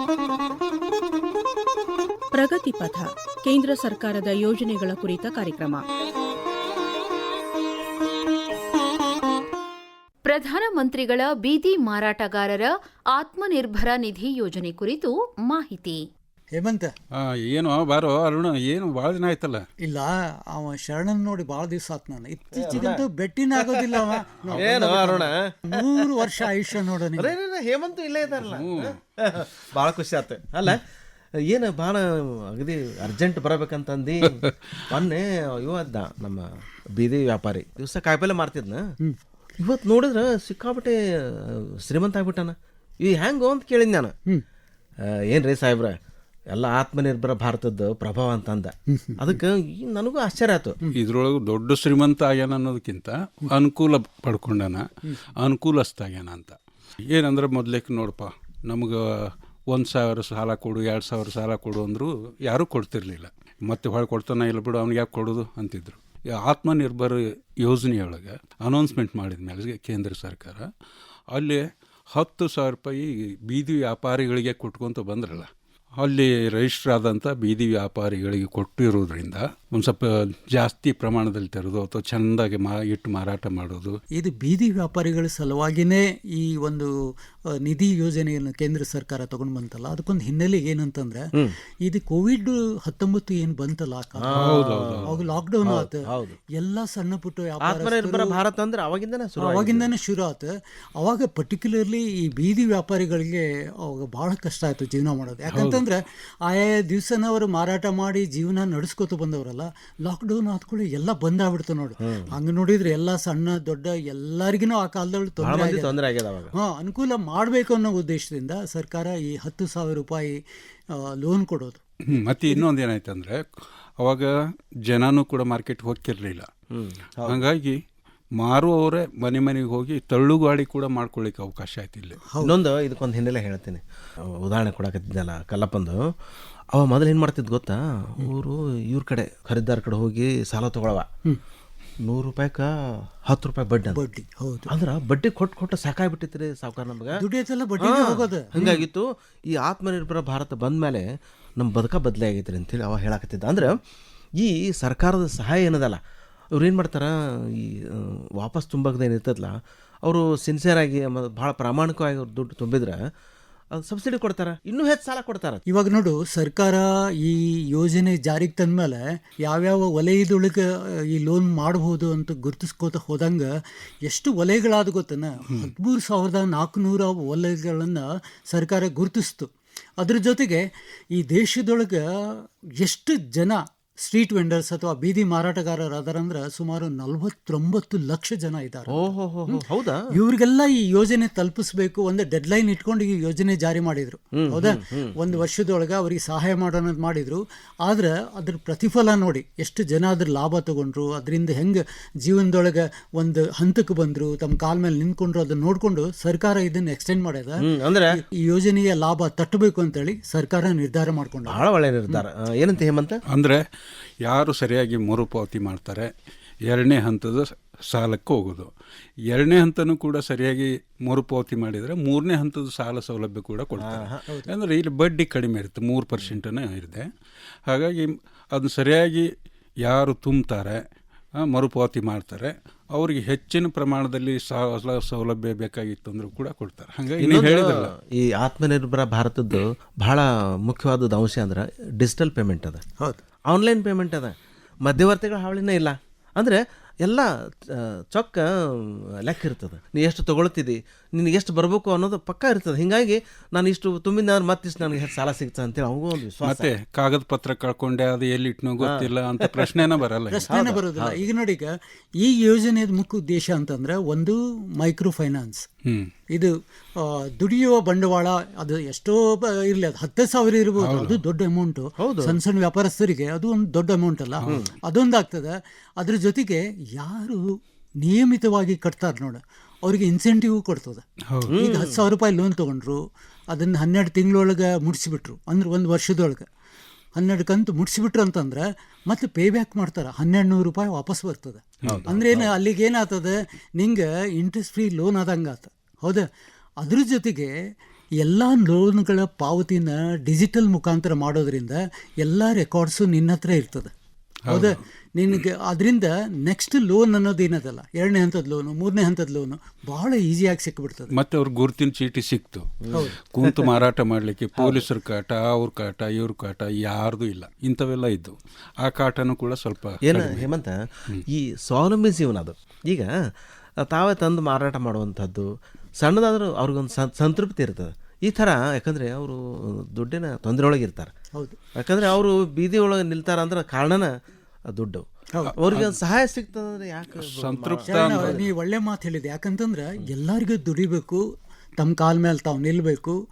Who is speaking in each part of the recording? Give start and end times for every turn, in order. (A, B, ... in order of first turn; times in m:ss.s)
0:02.3-0:05.8 A
0:10.2-0:16.0 B
0:16.5-0:16.9 C
0:17.2-0:19.6 D
0:19.8-0:27.3 C
0:22.5-0:23.0 E
0:23.6-0:23.9 E
0:24.5-0:26.5 E
0:27.2-0:30.8 E
0:28.3-0:29.0 D
0:31.4-0:38.9 E
0:39.6-0:44.1 E
0:45.3-0:46.0 E
0:46.5-0:50.8 E
0:48.9-0:49.3 C
0:51.0-0:54.8 D
0:55.4-0:56.6 D
0:57.1-1:10.6 D
1:11.3-1:11.6 D
1:12.1-1:15.5 D
1:16.0-1:24.0 D
1:24.1-1:26.9 C
1:27.6-1:31.3 C
1:31.8-1:34.5 C
1:34.2-1:35.1 E
1:34.3-1:35.1 D
1:35.0-1:38.4 C
1:35.6-1:36.4 E
1:37.6-1:39.9 E
1:39.4-1:56.0 C
1:45.5-1:45.8 D
1:52.0-1:52.3 E
1:55.4-1:56.5 E
1:56.5-2:00.4 C
2:01.0-2:01.8 C
2:02.1-2:03.4 D
2:04.0-2:04.3 D
2:04.9-2:06.5 D
2:06.7-2:07.4 E
2:07.2-2:07.8 D
2:08.4-2:12.2 D
2:12.3-2:12.5 C
2:12.4-2:13.8 E
2:14.4-2:16.1 E
2:16.7-2:21.0 E
2:22.0-2:24.0 E
2:23.9-2:24.7 C
2:24.7-2:27.2 E
2:27.2-2:28.5 C
2:27.8-2:31.0 E
2:31.6-2:33.8 E
2:34.4-2:36.0 E
2:36.5-2:39.5 E
2:40.0-2:43.0 E
2:43.7-2:45.6 E
2:45.7-2:53.5 C
2:54.0-3:31.6 C
3:08.9-3:10.0 E
3:14.4-3:15.4 E
3:27.6-3:28.2 E
3:31.5-3:33.2 E
3:33.3-3:33.6 D
3:34.2-3:36.1 D
3:36.7-3:38.7 D
3:39.3-3:47.0 D
3:43.8-3:44.2 E
3:47.7-3:49.3 D
3:49.8-3:50.8 D
3:51.4-3:57.9 D
3:57.2-4:02.8 E
4:03.5-4:16.7 E
4:16.4-4:20.5 D
4:18.8-4:19.8 E
4:20.3-4:25.6 C
4:20.5-4:21.2 E
4:26.3-4:37.4 C
4:30.8-4:31.2 D
4:32.0-4:32.4 E
4:34.5-4:34.7 E
4:38.0-4:46.5 C
4:41.5-4:42.0 E
4:47.2-4:56.2 C
4:51.8-4:52.5 E
4:56.8-4:57.5 C
4:58.2-5:03.9 C
5:04.5-5:11.1 C
5:04.5-5:04.8 D
5:11.1-5:20.5 D
5:12.8-5:13.7 E
5:14.6-5:14.9 E
5:20.1-5:23.1 E
5:23.8-5:31.1 E
5:31.8-5:34.1 E
5:34.7-5:35.0 E
5:35.6-5:38.5 E
5:35.6-5:36.0 D
5:37.1-5:38.4 D
5:37.8-5:41.2 C
5:41.8-5:43.2 C